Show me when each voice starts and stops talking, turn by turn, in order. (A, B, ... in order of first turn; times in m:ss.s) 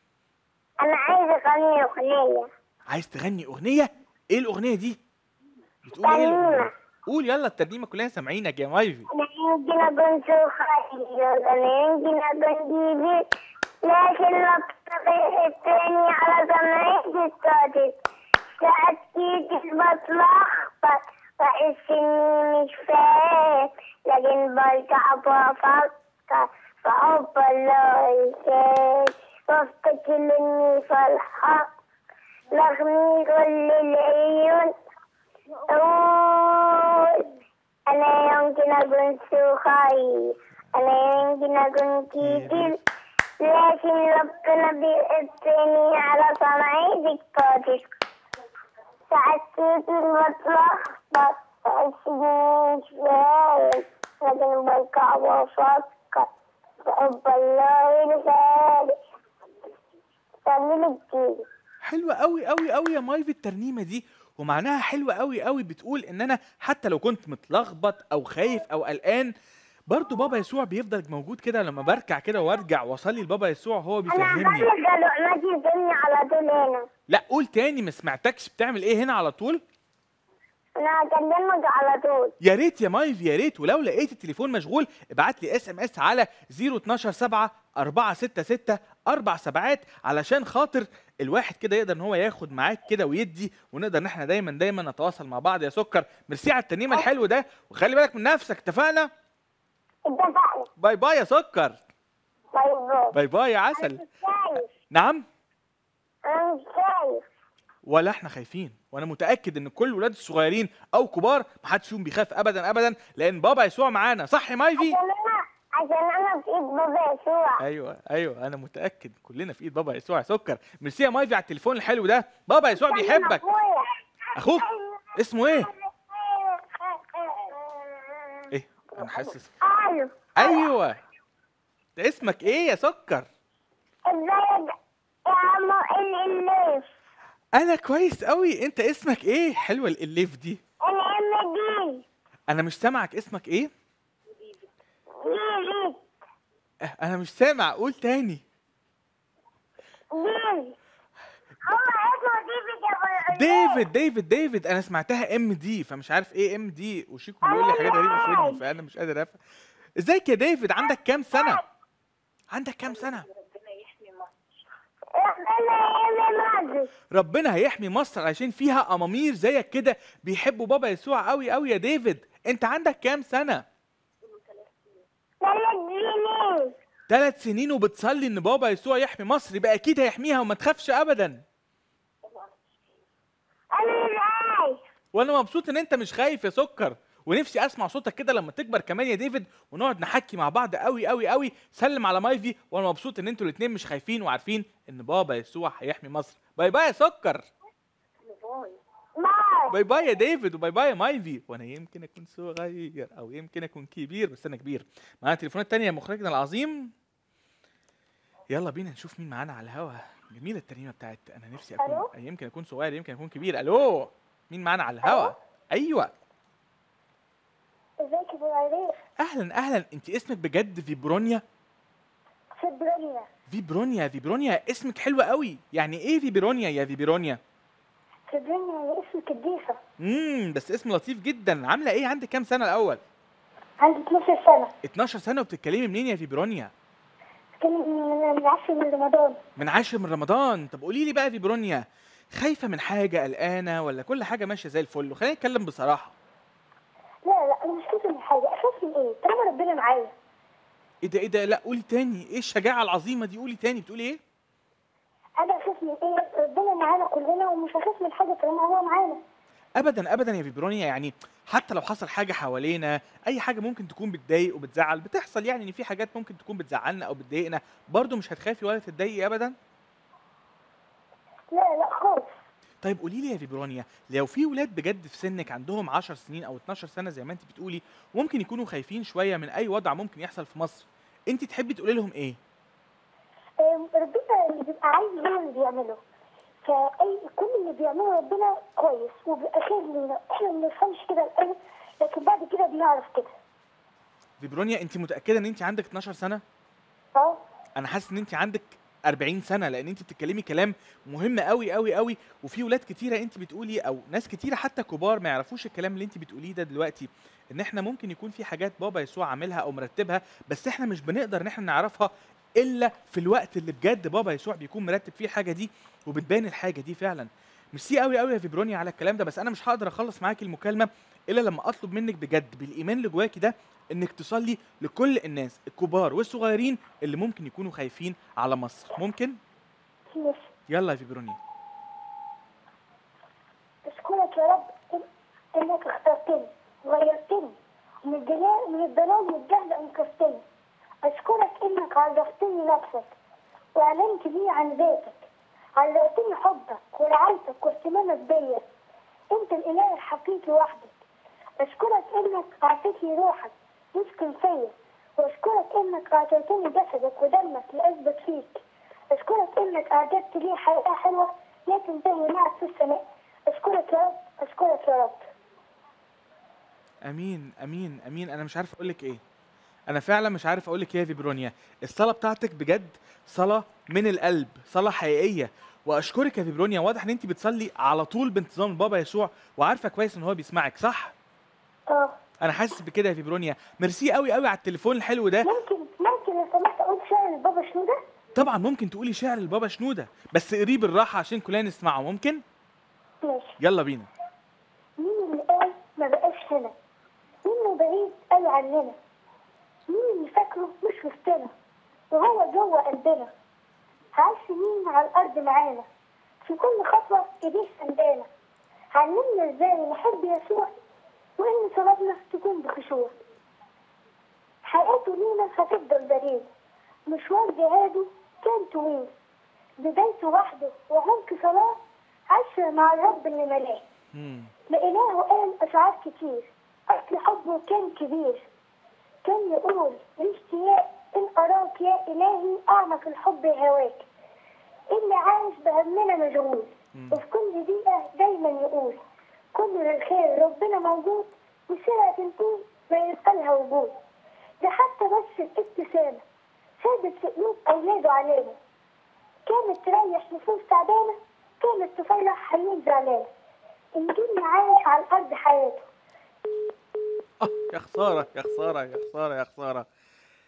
0:00.8-0:02.5 A
0:02.9-0:05.0 B
0:05.8-0:09.0 B
0:06.0-0:06.7 A
0:09.1-0:13.2 A
0:13.8-0:17.9 A
0:18.6-0:31.6 A
0:32.5-0:34.7 A
0:35.7-0:37.2 A
0:37.9-0:40.2 A
0:40.7-0:42.8 A
0:42.2-0:42.7 B
0:43.4-0:47.8 A
0:49.1-0:56.3 A
0:56.8-0:58.9 A
1:00.4-1:01.4 A
1:01.9-1:09.3 B
1:09.9-1:14.7 B
1:14.1-1:16.9 A
1:17.1-1:19.6 B
1:20.8-1:22.3 A
1:22.4-1:39.1 B
1:40.1-1:40.7 A
1:40.8-1:41.8 B
1:42.5-1:43.1 A
1:43.1-1:44.0 B
1:43.8-1:44.6 A
1:44.9-1:45.2 B
1:46.3-1:47.2 A
1:47.9-1:55.0 B
1:54.8-1:57.6 A
1:57.6-2:03.4 B
2:02.8-2:03.8 A
2:04.4-2:05.7 B
2:04.6-2:04.9 A
2:05.5-2:07.8 A
2:08.5-2:09.5 B
2:09.6-2:10.6 A
2:10.4-2:11.0 B
2:12.0-2:13.3 B
2:14.1-2:14.7 A
2:15.3-2:16.8 A
2:17.6-2:20.6 B
2:20.9-2:22.0 A
2:22.5-2:23.7 B
2:25.2-2:26.0 A
2:27.0-2:28.4 B
2:30.2-2:30.7 A
2:31.7-2:33.8 A
2:33.3-2:39.4 B
2:37.5-2:38.5 A
2:40.0-2:41.6 B
2:42.5-2:43.3 B
2:45.2-2:46.9 A
2:47.1-2:53.6 B
2:55.4-2:56.7 A
2:57.1-3:01.4 B
3:03.8-3:04.8 A
3:05.1-3:17.4 B
3:19.2-3:19.7 A
3:19.7-3:26.9 B
3:28.5-3:36.1 B
3:31.8-3:32.1 C
3:35.0-3:35.3 C
3:38.0-3:39.0 C
3:39.2-3:41.4 B
3:42.6-3:43.3 C
3:43.5-3:47.4 B
3:48.3-3:49.8 C
3:50.0-3:53.0 B
3:53.8-3:54.7 C
3:54.8-3:56.7 B
3:57.6-3:59.4 C
3:59.6-4:01.8 B
4:02.4-4:06.1 B
4:07.2-4:10.1 C
4:11.0-4:14.2 B
4:15.4-4:19.2 C
4:19.8-4:29.5 B
4:31.5-4:32.3 C
4:32.8-4:42.4 B
4:43.6-4:46.0 C
4:46.6-4:53.3 C
4:54.4-4:56.4 B
4:57.2-4:57.4 C
4:57.8-5:29.4 B
5:30.1-5:30.5 C
5:30.7-5:31.4 B
5:33.8-5:40.4 C
5:41.0-5:43.1 C
5:43.7-5:45.2 C
5:45.8-5:48.6 C
5:49.3-5:50.9 C
5:51.6-6:05.2 C
6:07.1-6:09.2 B
6:09.9-6:21.1 B
6:21.9-6:22.2 C
6:22.4-6:25.5 B
6:25.4-6:28.0 C
6:28.4-6:32.4 B
6:33.2-6:33.5 C
6:33.6-6:34.1 B
6:35.0-6:36.7 C
6:37.4-6:39.0 C
6:39.9-6:41.5 C
6:42.1-6:43.3 C
6:44.2-6:45.9 C
6:46.4-6:48.3 C
6:48.9-6:50.7 C
6:51.4-6:53.1 C
6:54.6-6:56.5 C
6:57.1-6:59.1 C
6:59.8-7:03.8 C
7:04.1-7:04.5 B
7:04.7-7:08.4 C
7:09.2-7:14.0 C
7:14.9-7:19.0 C
7:16.9-7:17.2 B
7:19.5-7:24.0 C
7:24.6-7:26.2 C
7:26.8-7:28.6 C
7:29.4-7:33.3 C
7:34.0-7:35.9 C
7:37.4-7:39.8 B